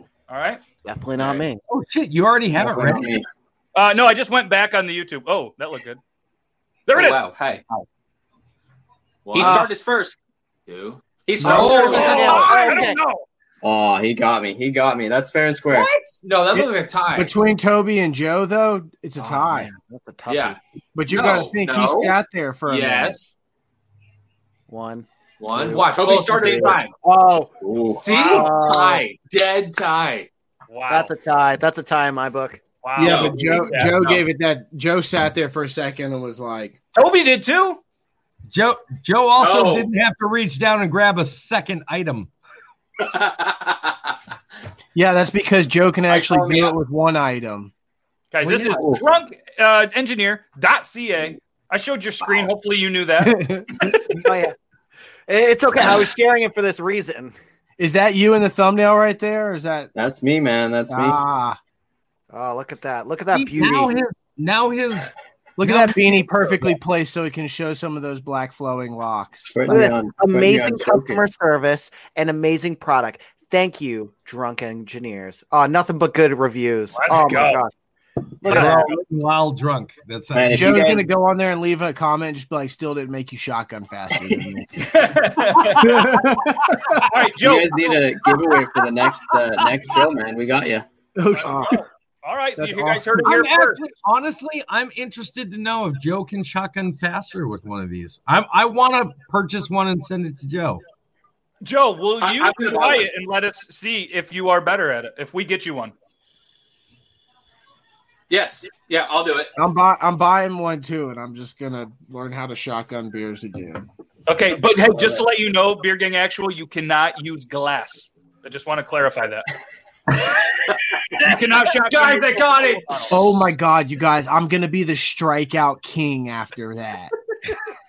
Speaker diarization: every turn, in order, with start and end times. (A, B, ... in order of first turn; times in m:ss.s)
0:00.3-0:00.6 A
0:00.8-0:01.6 B
0:01.2-0:01.4 C
0:01.7-0:03.1 D
0:02.6-0:03.3 E
0:03.8-0:06.0 A
0:06.9-0:07.2 A
0:07.0-0:07.6 F
0:07.0-0:07.6 C
0:09.3-0:09.7 C
0:09.3-0:10.2 F
0:10.7-0:12.7 C
0:11.3-0:12.3 F
0:11.4-0:13.0 B
0:11.9-0:13.2 A
0:13.6-0:15.9 E
0:15.7-0:17.3 C
0:16.5-0:19.7 G
0:19.2-0:20.6 B
0:20.3-0:22.2 C
0:21.0-0:23.2 G
0:22.7-0:23.4 C
0:24.7-0:26.0 B
0:25.4-0:27.0 C
0:25.8-0:26.9 F
0:26.6-0:27.5 B
0:27.7-0:28.0 E
0:28.0-0:30.3 C
0:28.1-0:28.5 A
0:28.1-0:29.1 B
0:30.7-0:31.1 A
0:30.9-0:32.6 B
0:32.8-0:34.0 A
0:33.0-0:36.8 G
0:33.0-0:34.1 F
0:37.0-0:37.8 A
0:38.5-0:42.3 D
0:39.4-0:39.9 F
0:43.0-0:43.9 F
0:44.9-0:47.7 G
0:46.1-0:46.8 F
0:48.3-0:54.0 A
0:48.4-0:49.0 G
0:53.2-0:54.0 G
0:54.0-0:54.6 B
0:55.3-0:57.4 B
0:57.8-0:59.9 G
1:00.0-1:01.2 E
1:00.9-1:01.6 G
1:02.3-1:04.0 B
1:03.3-1:05.1 D
1:05.6-1:09.8 G
1:05.6-1:06.0 D
1:09.5-1:11.2 E
1:09.7-1:17.7 B
1:16.9-1:17.7 A
1:18.4-1:19.0 B
1:18.4-1:20.8 D
1:18.5-1:18.9 A
1:20.3-1:21.1 E
1:20.5-1:25.1 G
1:24.8-1:26.3 A
1:25.6-1:27.1 G
1:26.9-1:28.1 A
1:27.4-1:30.9 E
1:31.2-1:31.8 G
1:31.3-1:33.8 A
1:32.6-1:33.3 G
1:33.2-1:40.8 D
1:41.6-1:45.9 A
1:42.2-1:43.1 F
1:48.3-1:49.5 F
1:49.6-1:53.9 G
1:54.3-1:59.5 A
2:01.2-2:03.1 A
2:01.3-2:03.1 C
2:03.1-2:07.1 G